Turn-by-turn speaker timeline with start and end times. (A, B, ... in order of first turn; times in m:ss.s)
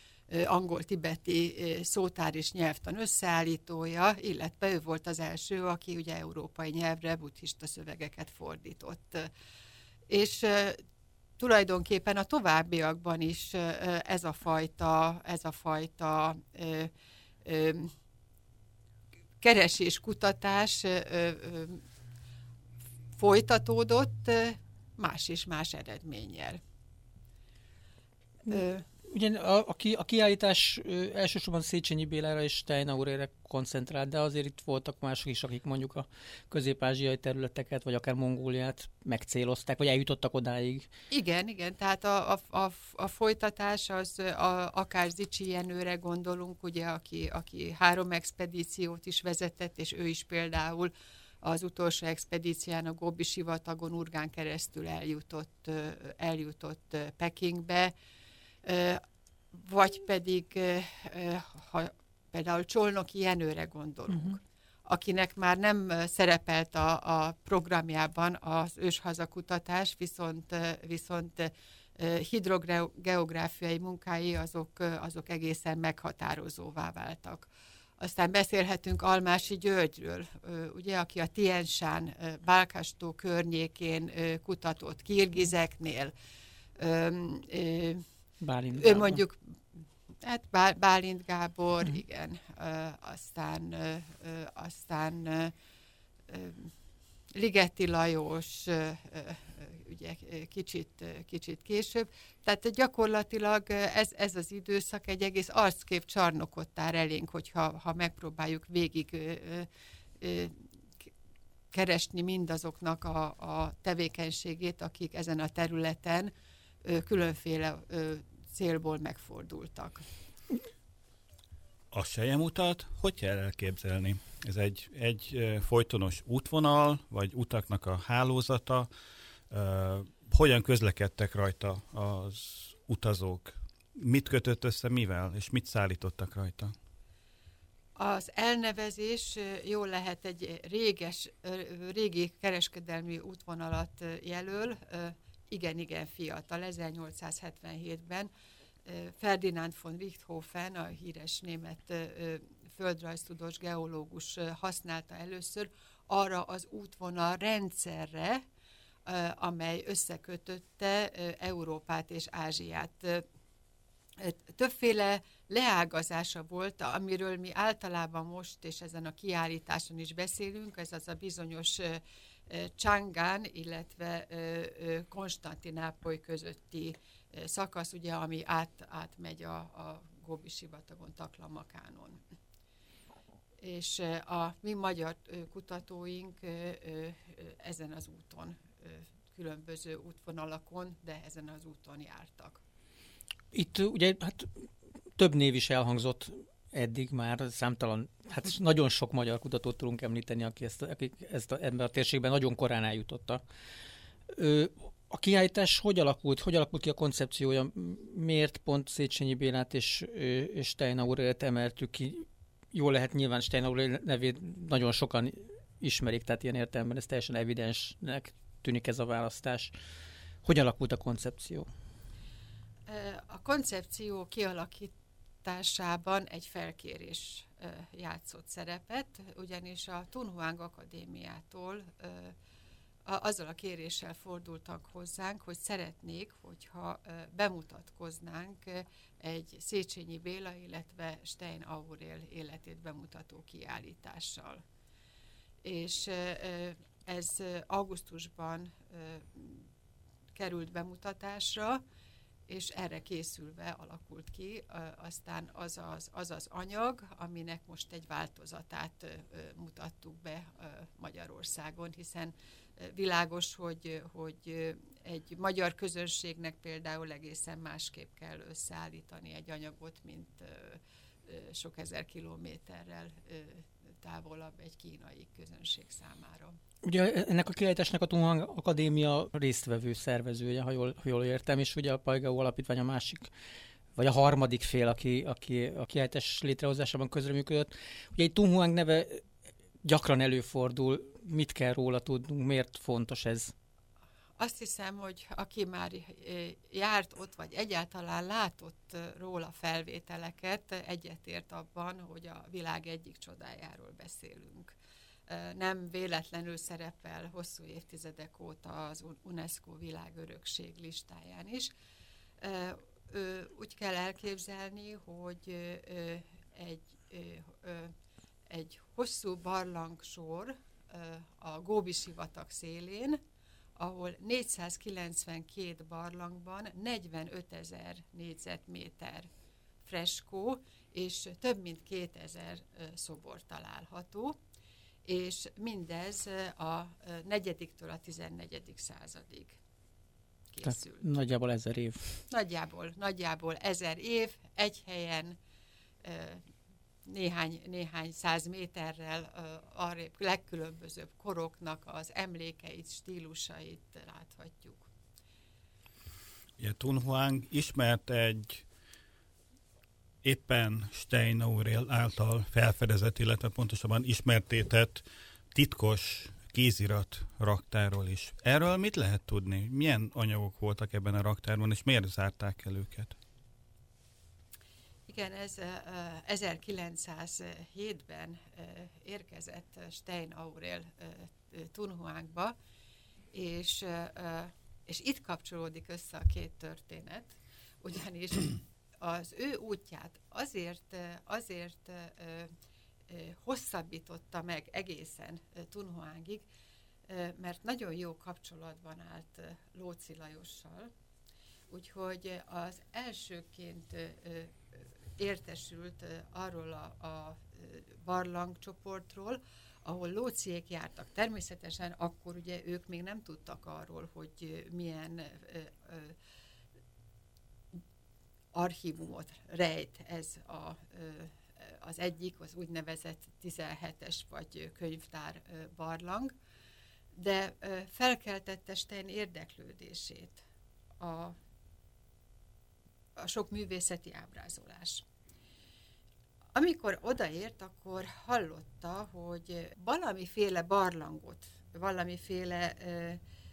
0:00.3-0:09.3 A
0:10.1-0:10.8 A
0:11.4-0:16.9 A
0:17.4-0:17.9 A
0:19.4-0:21.8 A
0:23.2-0:26.6 A
0:28.5-0:40.9 B
0:28.5-0:28.8 A
0:41.1-0:50.9 A
0:51.4-0:57.9 A
0:58.6-1:26.1 A
1:04.1-1:04.4 B
1:26.8-1:28.1 A
1:28.4-1:29.2 B
1:28.7-1:29.6 A
1:30.2-1:35.5 A
1:36.3-1:36.7 A
1:37.4-1:49.7 A
1:50.2-1:50.6 A
1:51.7-1:56.3 A
1:56.8-2:00.0 A
2:01.9-2:08.9 C
2:09.5-2:16.7 C
2:18.0-2:28.3 A
2:28.9-2:38.4 A
2:39.1-2:43.2 A
2:44.2-3:02.2 A
3:03.6-3:12.6 A
3:13.5-3:23.4 B
3:24.3-3:39.8 B
3:40.4-3:41.7 B
3:42.9-3:52.4 A
3:53.1-4:04.6 A
4:05.6-4:09.7 A
4:10.4-4:11.8 A
4:12.5-4:36.6 A
4:36.8-4:43.3 B
4:44.0-4:49.2 B
4:49.8-4:53.5 B
4:54.4-5:04.8 A
5:05.3-5:11.7 A
5:12.4-5:17.9 A
5:18.5-5:23.2 A
5:23.8-5:29.3 A
5:29.8-5:34.4 A
5:35.0-5:39.6 A
5:40.5-5:41.1 A
5:40.6-5:42.2 B
5:42.3-5:45.4 A
5:46.0-5:46.4 A
5:47.1-5:54.9 A
5:56.6-5:58.7 C
6:00.2-6:13.2 C
6:15.1-6:22.6 A
6:23.3-6:32.5 A
6:33.1-6:36.5 A
6:37.1-6:40.9 A
6:41.7-6:56.2 A
6:58.6-7:06.3 A
7:07.2-7:10.4 A
7:11.0-7:11.4 A
7:13.2-7:15.0 A
7:16.6-7:23.2 A